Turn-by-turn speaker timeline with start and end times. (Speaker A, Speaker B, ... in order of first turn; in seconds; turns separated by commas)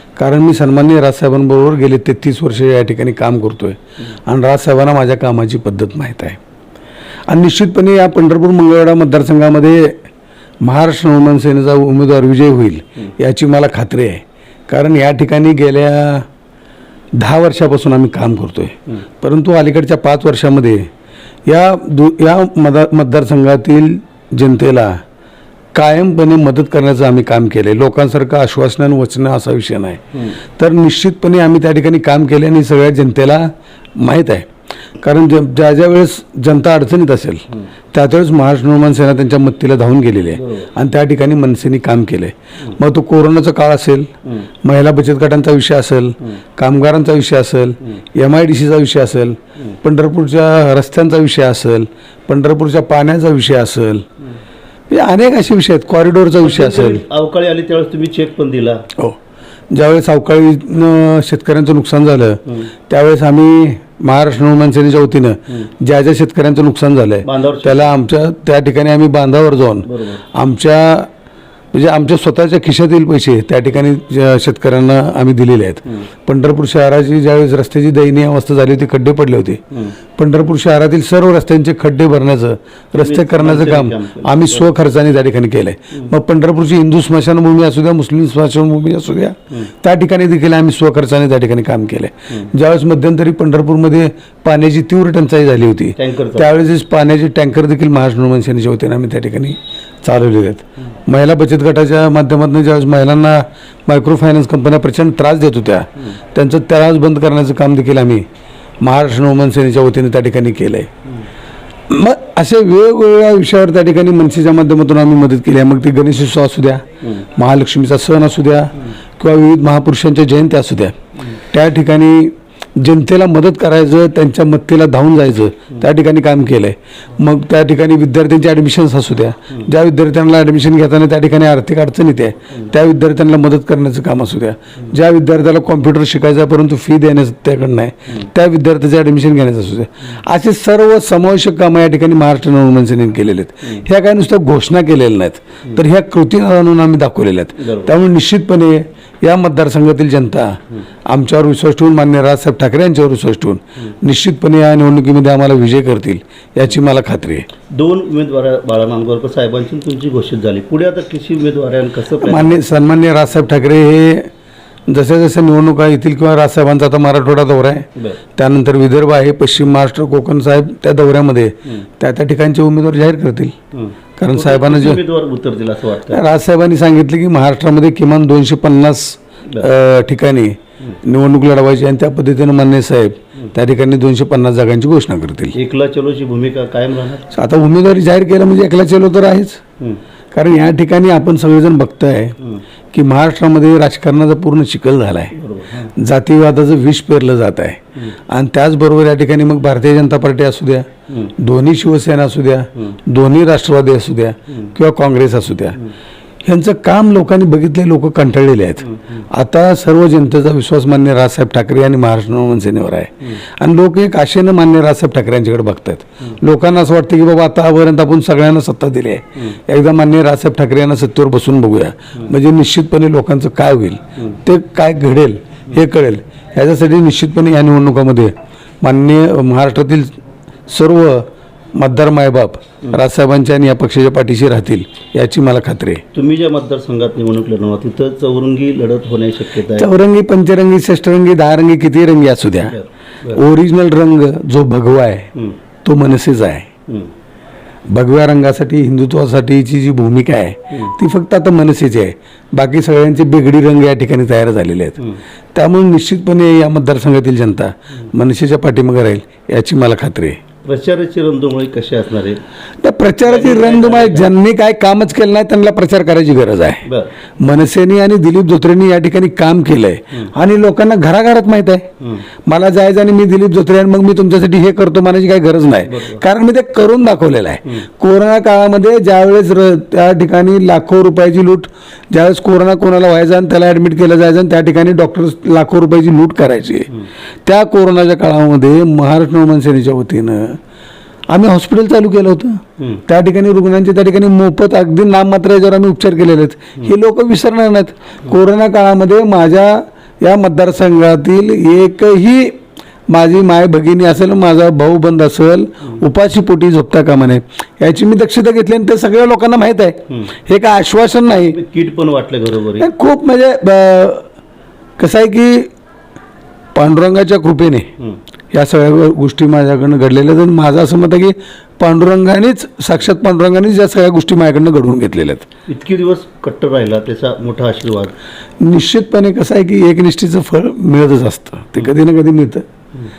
Speaker A: 0.2-6.4, Speaker A: 7.3-10.0, Speaker A: 10.6-16.2, Speaker A: 17.2-20.9, Speaker A: 21.4-25.0, Speaker A: 25.7-30.0, Speaker A: 30.6-34.5, Speaker A: 35.0-44.1, Speaker B: 40.4-40.7, Speaker A: 44.6-54.0, Speaker A: 54.9-57.0, Speaker B: 56.4-58.9, Speaker A: 59.7-71.1, Speaker B: 67.2-68.0, Speaker B: 69.9-70.2, Speaker A: 71.7-79.6, Speaker A: 80.2-108.2, Speaker B: 83.0-84.7, Speaker B: 96.0-96.5, Speaker A: 108.8-110.9, Speaker A: 111.9-116.8, Speaker A: 117.3-120.9, Speaker A: 121.5-157.4, Speaker B: 147.6-147.9, Speaker B: 157.7-162.6, Speaker A: 162.2-164.3, Speaker A: 164.9-173.5, Speaker B: 173.7-176.2, Speaker A: 174.2-175.0, Speaker A: 176.1-185.6, Speaker B: 185.5-187.3, Speaker A: 187.3-189.6, Speaker A: 190.3-192.4, Speaker A: 192.9-195.3, Speaker B: 195.3-195.9, Speaker A: 195.9-205.8, Speaker A: 206.4-230.1, Speaker A: 230.7-236.0, Speaker B: 236.1-239.9, Speaker A: 239.8-242.8, Speaker B: 242.7-243.4, Speaker A: 243.3-245.3, Speaker A: 245.8-246.7, Speaker A: 247.9-255.0, Speaker A: 255.5-260.4, Speaker B: 260.6-262.4, Speaker A: 262.8-266.8, Speaker B: 263.2-264.3, Speaker B: 266.9-267.1, Speaker A: 267.4-271.9, Speaker A: 272.4-286.9, Speaker B: 275.9-276.2, Speaker A: 287.4-290.6, Speaker A: 291.3-302.6, Speaker A: 303.1-311.6, Speaker B: 311.3-312.9, Speaker A: 312.8-314.2, Speaker A: 315.0-315.7, Speaker A: 316.7-317.9, Speaker A: 318.5-325.5, Speaker B: 325.7-328.1, Speaker A: 328.6-332.6